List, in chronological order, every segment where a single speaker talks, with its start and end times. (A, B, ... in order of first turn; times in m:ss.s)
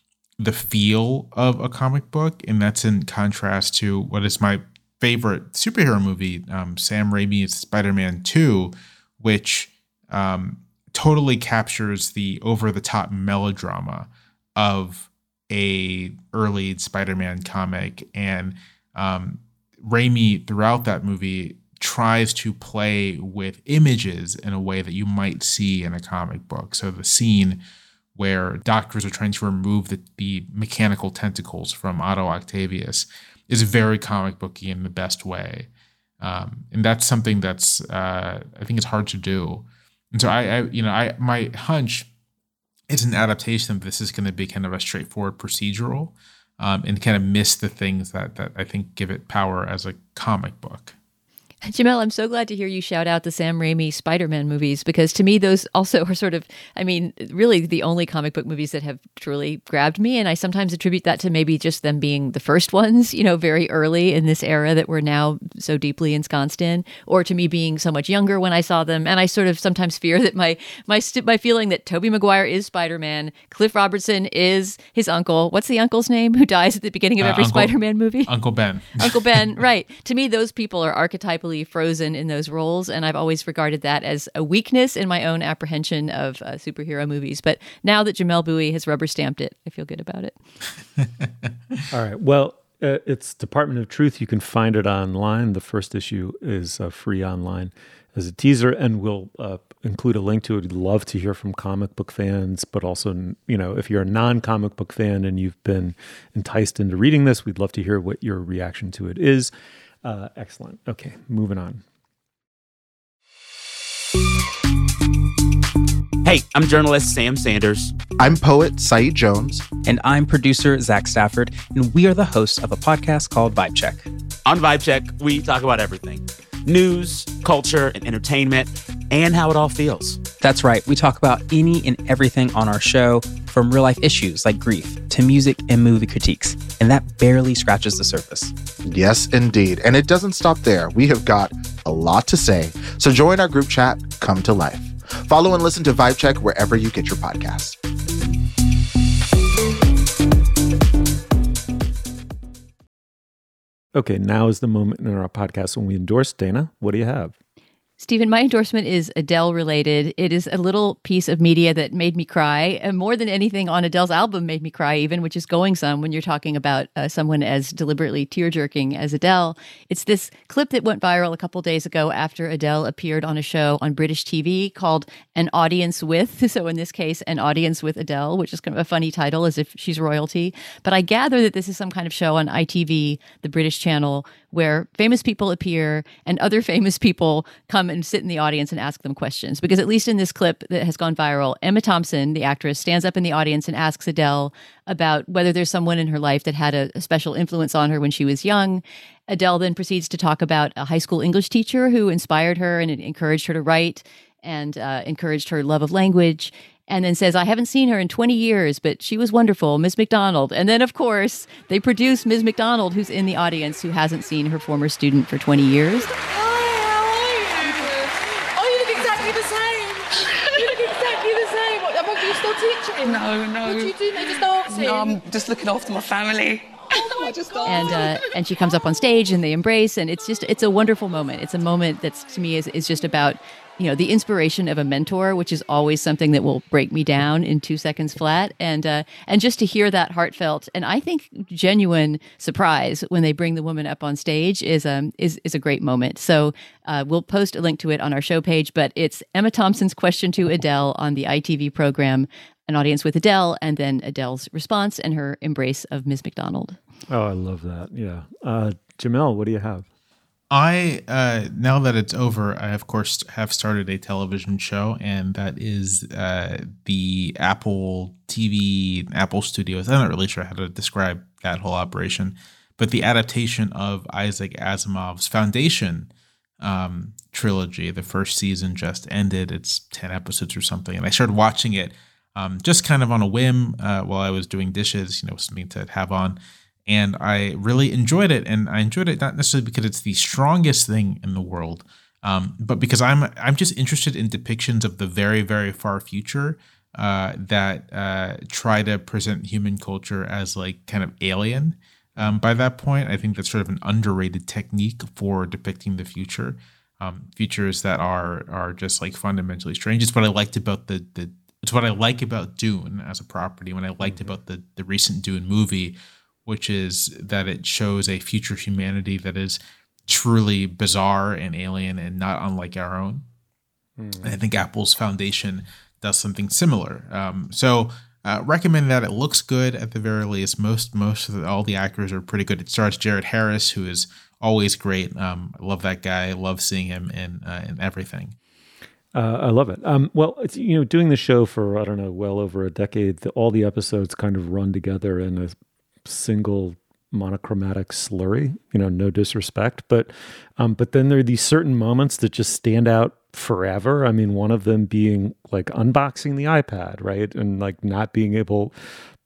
0:00.4-0:27.6 A
0:28.1-0:35.7 A
0:36.2-0:42.1 A
0:42.9-0:50.9 A
0:51.6-1:18.3 B
1:17.2-1:19.4 A
1:19.0-1:30.4 B
1:31.9-1:49.5 C
1:50.0-1:51.8 C
1:56.2-1:58.0 D
1:58.2-1:59.7 E
1:59.8-2:04.1 F
2:04.4-2:10.2 D
2:10.4-2:18.5 F
2:18.8-2:27.8 E
2:33.9-2:37.3 C
2:38.0-3:36.1 B
3:36.2-3:45.2 G
3:43.0-3:47.9 H
3:47.2-3:48.0 G
3:47.6-4:16.8 B
4:17.1-4:19.8 C
4:20.5-4:36.1 A
4:36.6-5:23.2 A
5:14.0-5:14.4 C
5:24.0-5:24.4 C
5:24.2-5:38.3 A
5:39.1-5:58.7 C